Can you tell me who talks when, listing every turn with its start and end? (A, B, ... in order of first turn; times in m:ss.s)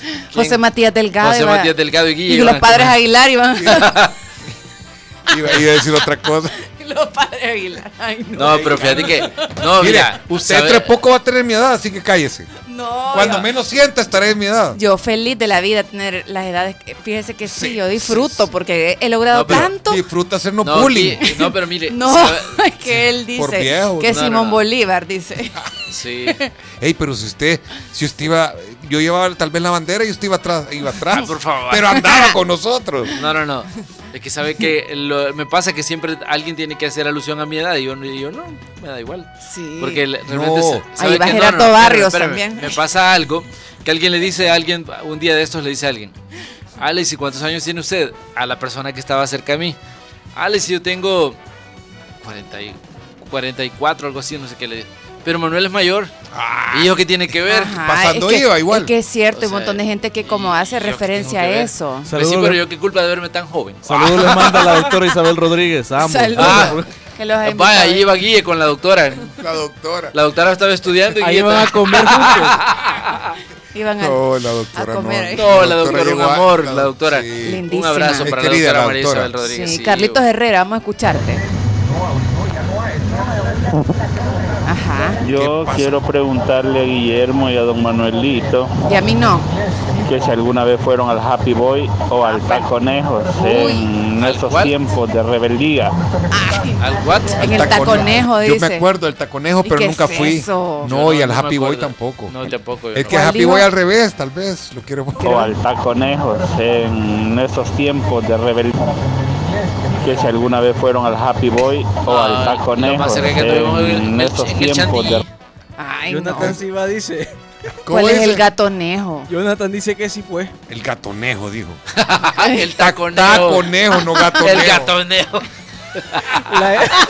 0:00.3-0:01.7 A
0:00.3-0:00.6 B
0:01.2-0:03.0 B
0:02.3-0:03.9 A
0:03.6-0:04.1 B
0:05.3-0:06.5 C
0:06.6-0:09.2 A
0:08.4-0:10.9 B
0:09.8-0:12.5 C
0:12.7-0:13.5 A
0:13.1-0:14.8 C
0:14.8-0:20.0 A
0:17.4-0:18.5 C
0:19.3-0:19.7 B
0:19.5-0:21.2 C
0:20.6-0:22.6 B
0:21.9-0:25.6 A
0:23.4-0:24.2 C
0:24.1-0:24.6 B
0:25.9-0:26.4 B
0:26.8-0:33.1 C
0:31.1-0:32.0 B
0:32.0-0:32.3 A
0:33.1-0:46.2 B
0:39.4-0:40.0 A
0:40.3-0:40.8 C
0:41.0-0:42.8 A
0:46.8-0:49.8 B
0:50.4-0:51.4 B
0:52.2-0:56.1 B
0:56.3-0:57.0 C
0:56.7-0:57.8 B
0:57.5-1:02.1 A
0:57.7-0:58.9 C
0:59.3-1:04.9 B
1:02.1-1:02.6 D
1:03.9-1:06.8 D
1:06.0-1:08.0 A
1:06.4-1:06.7 C
1:07.4-1:09.4 B
1:09.4-1:10.1 C
1:10.1-1:13.2 B
1:11.2-1:12.6 D
1:13.7-1:14.2 A
1:14.0-1:17.6 C
1:14.7-1:15.5 A
1:15.4-1:20.2 B
1:17.4-1:18.3 A
1:18.2-1:19.3 C
1:19.4-1:21.4 A
1:24.7-1:25.2 A
1:25.2-1:26.0 C
1:25.2-1:28.7 E
1:28.8-1:29.5 A
1:30.0-1:36.0 E
1:32.2-1:32.7 A
1:33.4-1:33.9 A
1:34.2-1:34.8 B
1:36.3-1:36.8 A
1:36.8-1:38.1 B
1:37.4-1:38.8 A
1:37.4-1:42.4 C
1:39.6-1:40.9 A
1:40.9-1:43.2 B
1:42.9-1:45.5 C
1:43.1-1:43.7 A
1:45.2-1:48.8 E
1:50.0-1:55.2 E
1:52.1-1:55.2 B
1:55.8-1:56.6 A
1:56.1-1:57.3 D
1:57.9-1:58.4 C
1:57.9-1:59.3 A
1:59.3-2:00.5 D
2:00.7-2:01.8 C
2:01.9-2:03.7 B
2:02.7-2:04.9 C
2:04.4-2:06.7 B
2:06.5-2:07.0 D